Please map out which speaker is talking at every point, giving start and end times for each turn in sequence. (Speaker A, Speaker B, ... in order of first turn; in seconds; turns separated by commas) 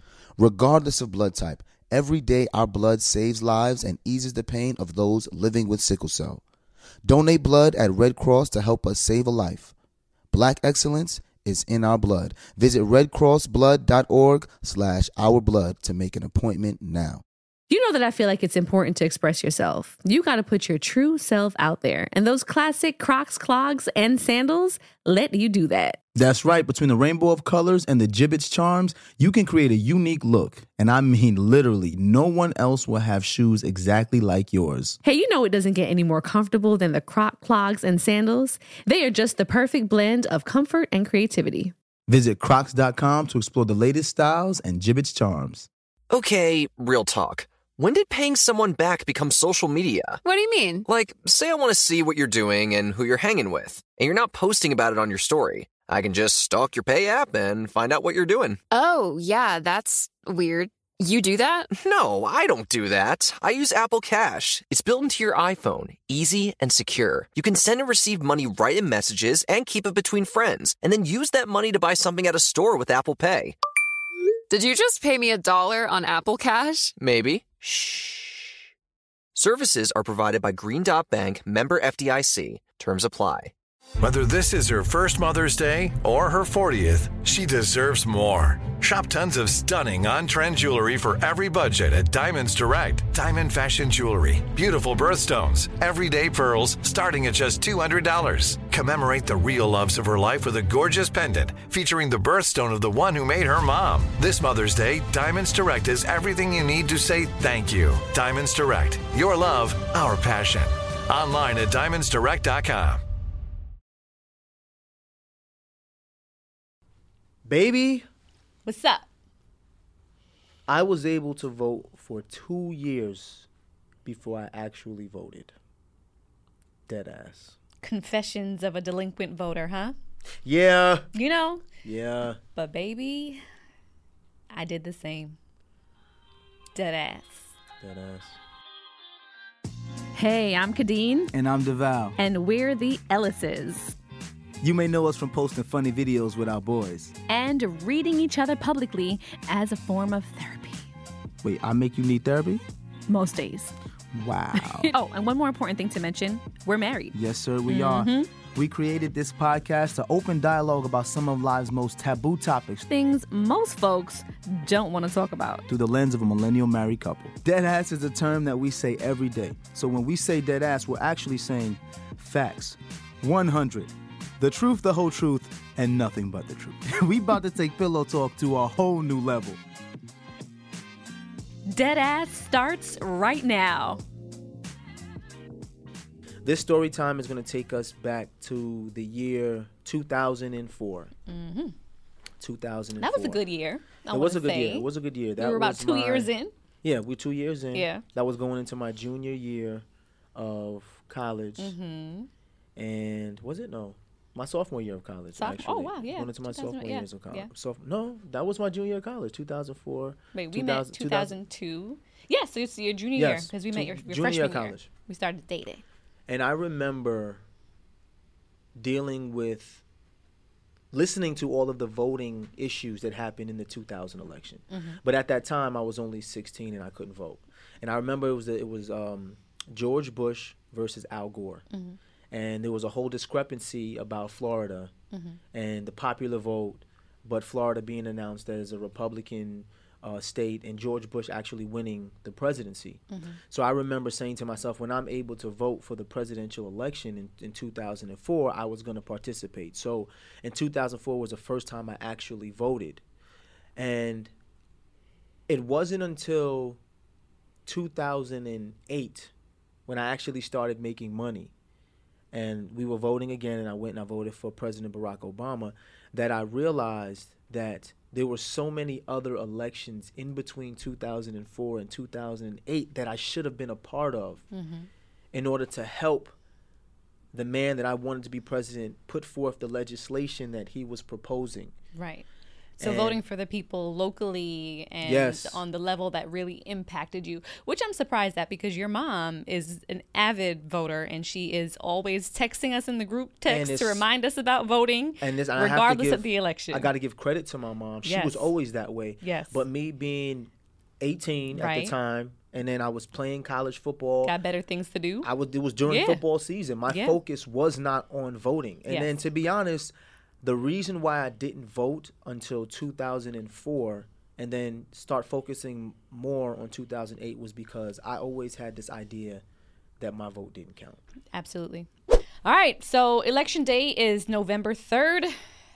Speaker A: 0.4-6.4, Speaker A: 7.0-9.7, Speaker A: 10.3-17.2, Speaker B: 17.7-26.0, Speaker C: 26.1-35.0, Speaker B: 35.0-41.7, Speaker C: 42.1-45.7, Speaker D: 46.1-50.2, Speaker E: 50.2-50.8, Speaker D: 50.9-58.6, Speaker E: 58.7-61.7, Speaker D: 61.8-73.6, Speaker E: 74.5-76.9, Speaker D: 77.0-78.5, Speaker D: 79.3-83.5, Speaker F: 84.0-113.0, Speaker C: 117.5-118.1, Speaker B: 118.7-119.1, Speaker C: 120.7-123.5, Speaker C: 124.0-125.5, Speaker C: 126.9-127.6, Speaker B: 127.8-130.0, Speaker C: 130.4-131.1, Speaker B: 131.1-131.7, Speaker C: 131.8-132.4, Speaker B: 132.6-133.4, Speaker B: 134.5-135.4, Speaker B: 136.8-137.5, Speaker C: 137.8-138.4, Speaker B: 140.2-141.3, Speaker C: 141.3-142.2, Speaker B: 142.2-144.0, Speaker C: 144.6-147.1, Speaker B: 147.3-150.9, Speaker C: 151.4-152.7, Speaker B: 153.1-153.8, Speaker C: 154.1-154.9, Speaker B: 154.6-158.3, Speaker C: 157.1-162.9, Speaker B: 162.9-165.7, Speaker C: 165.7-179.6, Speaker B: 181.7-184.0, Speaker C: 186.4-191.1, Speaker B: 191.3-191.7, Speaker C: 192.4-193.4, Speaker B: 193.0-196.5, Speaker C: 194.1-196.3, Speaker C: 196.8-201.8, Speaker B: 197.7-198.0, Speaker B: 201.6-202.3, Speaker C: 202.8-211.3, Speaker B: 205.4-207.5, Speaker B: 210.3-215.8, Speaker C: 213.2-214.9, Speaker C: 216.3-217.4, Speaker C: 218.8-219.8, Speaker C: 220.9-231.6, Speaker B: 224.7-225.0, Speaker B: 231.7-232.0, Speaker C: 232.3-234.9, Speaker B: 235.1-235.4, Speaker C: 235.5-253.0, Speaker B: 243.1-243.4, Speaker C: 253.8-254.3, Speaker C: 255.5-256.8, Speaker C: 257.7-259.3, Speaker C: 259.9-261.5, Speaker C: 262.3-274.4, Speaker B: 274.5-274.9, Speaker C: 275.3-276.3, Speaker C: 277.3-281.7, Speaker B: 281.9-282.3, Speaker B: 282.8-296.9, Speaker C: 282.8-283.2, Speaker C: 285.0-285.6, Speaker C: 293.5-294.1, Speaker C: 295.2-304.4, Speaker B: 298.1-298.5, Speaker B: 299.2-299.6, Speaker B: 301.5-301.9, Speaker B: 304.2-305.3, Speaker C: 305.2-319.4, Speaker B: 305.9-306.2, Speaker B: 306.9-307.2, Speaker B: 308.9-309.1, Speaker C: 320.0-321.0, Speaker B: 321.3-321.9, Speaker B: 322.4-325.4